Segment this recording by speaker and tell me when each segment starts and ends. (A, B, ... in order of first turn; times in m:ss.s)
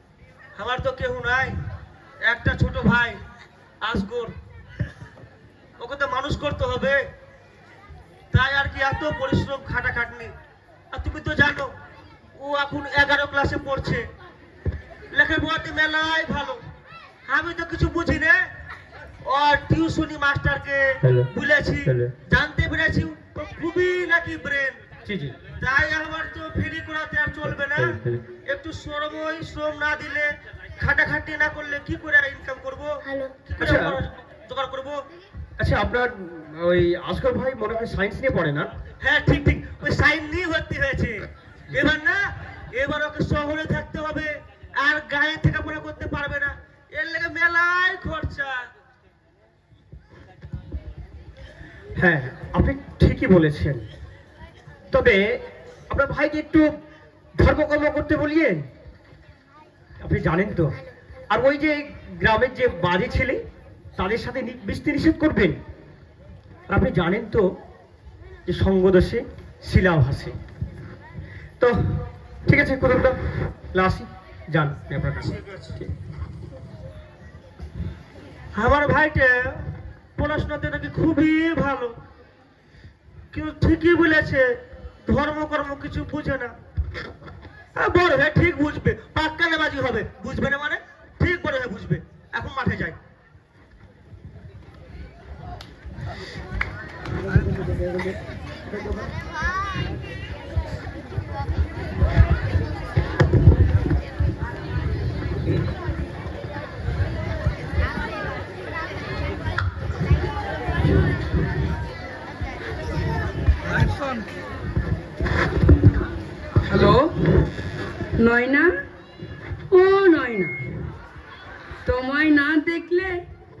0:00.6-0:01.6 A
0:02.2-0:03.2 A
0:03.8-0:04.3 A
0:05.8-0:07.0 A
0:08.3-0:10.3 A
0:10.9-0:11.7 A
0:12.4-0:14.0 A
0:15.1-0:16.6 A
0:17.3-0:18.4 A
0:19.2-0:24.8 A
0:21.0-0:21.3 B
0:21.8-0:22.1 B
0:25.0-0:25.4 B
0:25.6-0:35.0 A
0:27.4-0:28.2 B
0:33.6-0:34.0 B
0:35.6-0:38.7 B
0:39.0-0:41.2 A
0:41.7-0:42.2 A
0:42.7-0:48.6 A
0:52.0-0:53.8 B
0:54.9-0:55.2 B
0:55.9-0:56.7 B
0:57.4-0:58.6 B
1:00.0-1:00.8 B
1:01.3-1:03.4 B
1:04.0-1:05.6 B
1:06.7-1:07.4 B
1:08.5-1:10.4 B
1:12.4-1:13.2 B
1:13.7-1:15.9 B
1:15.2-1:15.8 A
1:18.5-1:21.9 A
1:23.3-1:24.4 A
1:25.0-1:26.5 A
1:27.8-1:33.0 A
1:56.7-1:57.1 C
1:58.2-1:58.7 C
1:59.7-2:00.6 C
2:01.8-2:03.2 C